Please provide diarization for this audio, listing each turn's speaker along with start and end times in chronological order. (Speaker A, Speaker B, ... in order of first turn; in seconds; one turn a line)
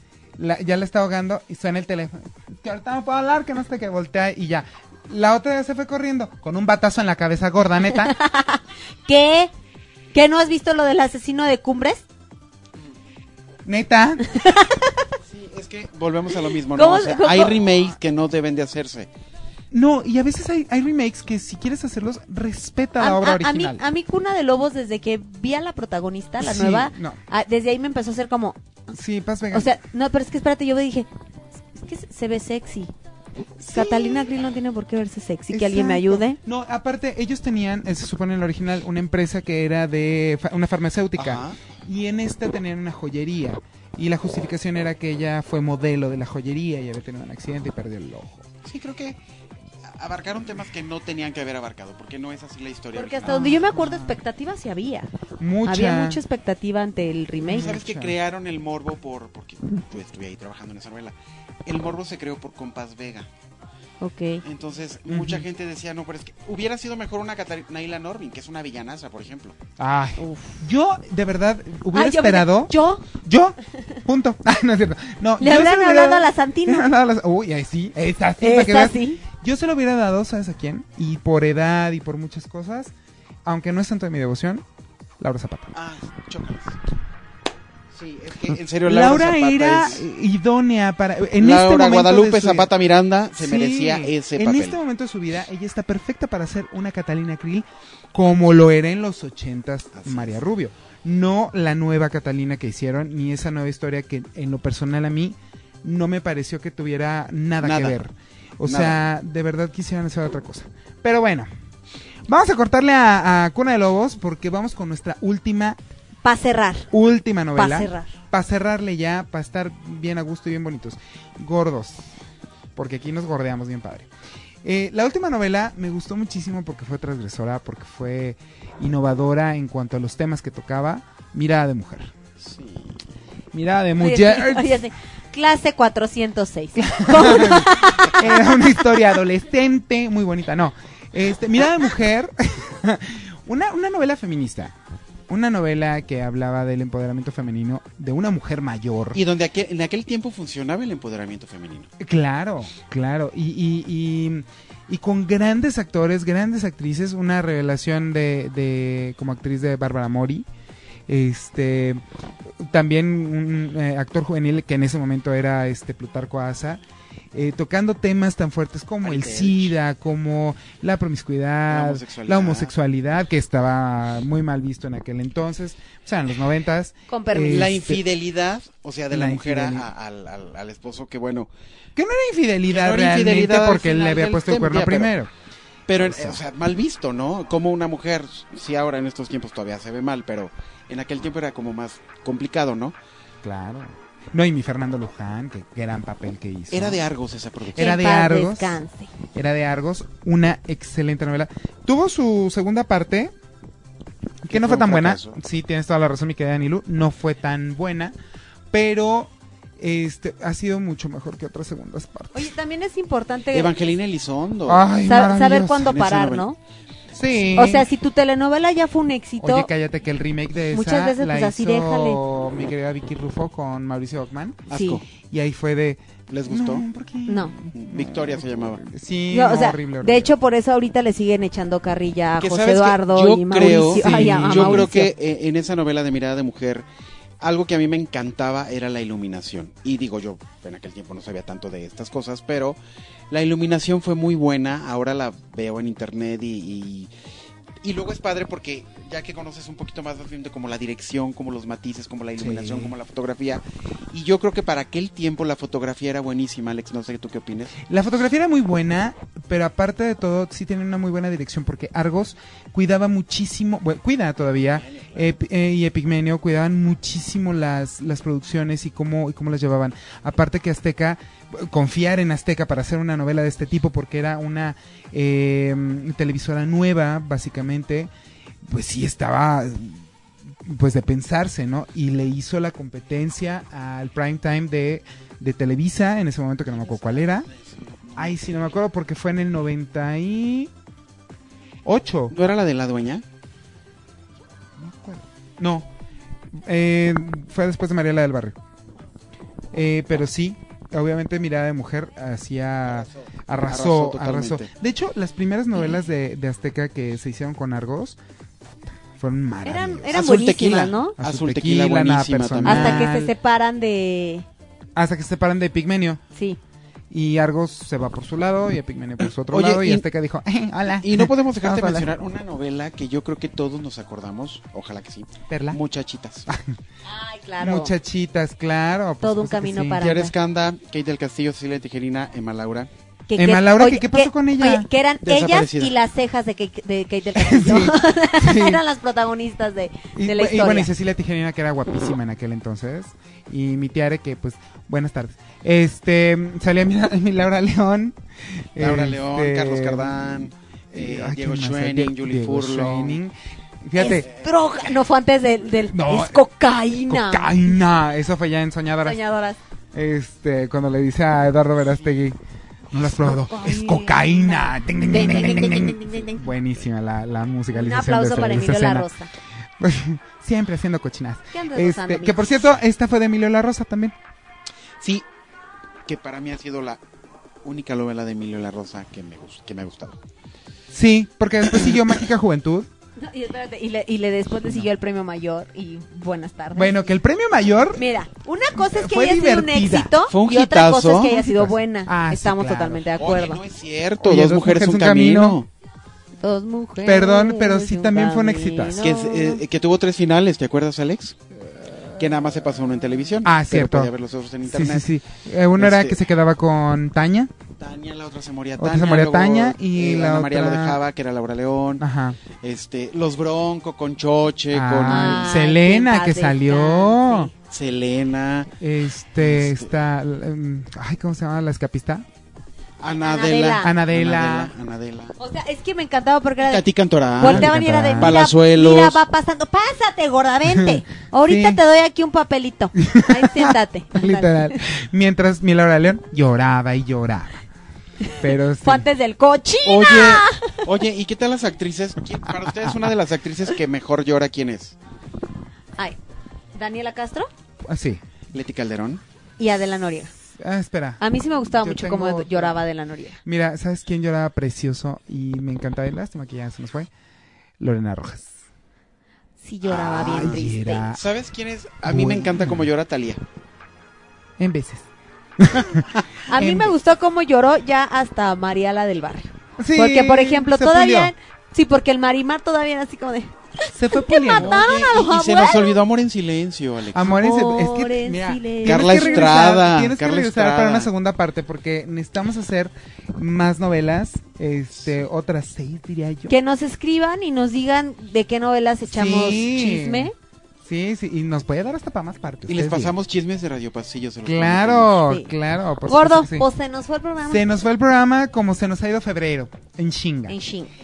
Speaker A: 0.4-8.2
Speaker B: 8.0-9.5
Speaker B: 10.1-12.1
Speaker A: 13.7-14.3
Speaker B: 14.3-14.9
Speaker C: 15.2-19.1
Speaker B: 16.7-17.6
Speaker A: 19.7-23.8
Speaker B: 23.0-28.6
Speaker A: 26.4-27.2
Speaker A: 28.9-29.7
Speaker B: 29.5-31.1
Speaker B: 31.7-32.9
Speaker A: 33.6-34.3
Speaker B: 33.7-36.4
Speaker A: 35.5-48.5
Speaker C: 41.2-41.6
Speaker C: 48.6-49.2
Speaker C: 49.9-53.7
Speaker B: 52.9-55.1
Speaker A: 53.2-54.2
Speaker A: 55.4-56.2
Speaker B: 55.7-57.8
Speaker C: 57.4-63.3
Speaker A: 57.5-58.2
Speaker B: 64.0-64.4
Speaker C: 64.4-69.6
Speaker A: 65.1-65.5
Speaker A: 69.8-82.9
Speaker B: 70.2-70.6
Speaker B: 71.9-73.0
Speaker B: 75.4-76.9
Speaker B: 78.4-79.2
Speaker A: 83.5-84.6
Speaker A: 85.2-85.7
Speaker C: 85.7-86.8
Speaker C: 87.9-90.0
Speaker A: 88.5-92.7
Speaker C: 91.4-94.8
Speaker A: 93.4-111.5
Speaker C: 100.0-100.4
Speaker C: 107.6-108.0
Speaker C: 108.7-109.0
Speaker A: 112.3-115.8
Speaker B: 116.2-116.9
Speaker A: 116.9-122.1
Speaker B: 117.5-118.1
Speaker A: 122.8-124.1
Speaker A: 124.6-132.1
Speaker C: 132.4-133.1
Speaker A: 133.5-134.8
Speaker B: 134.0-138.3
Speaker A: 136.8-144.8
Speaker C: 137.9-138.4
Speaker A: 145.3-149.2
Speaker C: 149.1-151.9
Speaker A: 152.0-160.5
Speaker A: 161.1-162.0
Speaker A: 162.5-166.8
Speaker A: 167.3-178.0
Speaker C: 169.0-169.7
Speaker C: 171.7-172.7
Speaker B: 177.1-177.7
Speaker C: 177.4-181.5
Speaker A: 179.1-179.9
Speaker A: 182.0-185.3
Speaker C: 182.7-185.1
Speaker C: 185.9-192.9
Speaker A: 186.0-186.4
Speaker A: 193.4-197.0
Speaker C: 196.7-197.8
Speaker A: 197.8-198.8
Speaker B: 197.8-199.1
Speaker A: 199.3-203.3
Speaker A: 204.4-208.2
Speaker C: 204.5-205.4
Speaker A: 208.7-212.5
Speaker B: 212.3-213.7
Speaker C: 213.5-214.9
Speaker A: 214.7-216.0
Speaker B: 215.1-216.6
Speaker C: 215.8-216.5
Speaker A: 217.2-217.9
Speaker B: 217.6-219.7
Speaker A: 219.4-230.3
Speaker B: 220.7-222.2
Speaker C: 224.7-225.0
Speaker B: 224.7-225.0
Speaker C: 226.3-226.8
Speaker B: 227.3-227.5
Speaker C: 227.8-228.8
Speaker B: 229.3-235.1
Speaker C: 232.4-236.9
Speaker A: 233.9-235.1
Speaker C: 237.4-242.8
Speaker C: 243.3-247.1
Speaker C: 247.8-257.8
Speaker A: 252.4-252.9
Speaker A: 257.9-278.1
Speaker C: 264.8-265.2
Speaker A: 278.6-280.1
Speaker A: 280.6-287.5
Speaker C: 286.8-288.6
Speaker A: 288.2-290.7
Speaker A: 291.8-292.4
Speaker C: 292.3-293.2
Speaker A: 294.8-295.9
Speaker A: 296.6-298.6
Speaker A: 299.7-308.2
Speaker C: 303.6-304.7
Speaker A: 309.2-310.2
Speaker B: 309.6-311.2
Speaker C: 310.1-313.1
Speaker A: 311.2-313.3
Speaker B: 312.6-314.4
Speaker A: 315.0-316.2
Speaker A: 317.1-322.2
Speaker C: 319.5-320.1
Speaker C: 321.0-326.5
Speaker A: 325.5-325.8
Speaker A: 326.5-326.8
Speaker B: 327.1-327.9
Speaker A: 327.6-330.1
Speaker B: 329.2-330.3
Speaker C: 330.0-332.9
Speaker B: 333.3-340.9
Speaker A: 333.4-334.9
Speaker C: 335.2-335.9
Speaker A: 337.4-338.8
Speaker A: 340.1-354.3
Speaker C: 348.8-353.2
Speaker B: 354.0-357.8
Speaker A: 355.9-356.5
Speaker A: 357.1-359.2
Speaker B: 359.0-359.6
Speaker A: 359.9-362.4
Speaker A: 362.9-369.1
Speaker B: 363.1-366.5
Speaker B: 367.7-369.3
Speaker A: 369.8-374.2
Speaker B: 371.5-372.5
Speaker C: 375.0-375.3
Speaker C: 376.1-377.0
Speaker C: 377.6-380.2
Speaker A: 380.9-382.9
Speaker B: 383.2-387.0
Speaker A: 386.7-388.1
Speaker B: 388.0-393.6
Speaker A: 388.8-390.1
Speaker C: 390.3-391.7
Speaker A: 392.1-393.1
Speaker C: 393.2-395.7
Speaker A: 394.2-395.6
Speaker B: 396.4-399.6
Speaker A: 397.0-399.0
Speaker C: 399.0-401.4
Speaker C: 402.1-405.1
Speaker A: 403.4-404.1
Speaker A: 404.7-407.5
Speaker C: 405.8-406.2
Speaker C: 407.8-415.6
Speaker A: 408.8-411.0
Speaker A: 412.0-412.4
Speaker A: 414.7-417.5
Speaker B: 415.0-417.5
Speaker C: 417.7-418.7
Speaker A: 418.8-422.2
Speaker C: 419.4-419.9
Speaker C: 423.0-425.4
Speaker B: 423.2-423.9
Speaker A: 423.8-424.7
Speaker B: 425.4-434.8
Speaker C: 426.6-429.2
Speaker A: 427.4-428.4
Speaker A: 430.7-431.8
Speaker A: 433.0-437.6
Speaker B: 438.2-440.8
Speaker A: 438.3-439.1
Speaker C: 439.9-445.0
Speaker B: 446.8-447.5
Speaker A: 447.8-448.2
Speaker C: 448.5-449.2
Speaker B: 449.6-450.3
Speaker A: 450.6-452.8
Speaker B: 451.2-453.4
Speaker A: 453.4-457.1
Speaker A: 457.8-458.5
Speaker B: 459.6-461.1
Speaker C: 459.8-463.4
Speaker A: 460.2-461.2
Speaker A: 462.1-462.9
Speaker A: 464.6-465.1
Speaker A: 465.6-467.0
Speaker C: 465.9-466.3
Speaker B: 466.5-476.0
Speaker A: 469.8-471.3
Speaker A: 473.9-474.9
Speaker C: 474.5-477.4
Speaker A: 477.1-486.6
Speaker B: 477.2-479.5
Speaker C: 478.8-481.1
Speaker B: 486.5-490.3
Speaker A: 489.1-490.3
Speaker A: 490.8-493.1
Speaker C: 492.7-495.2
Speaker A: 494.4-496.7
Speaker B: 496.1-497.7
Speaker A: 497.5-500.6
Speaker B: 500.5-500.9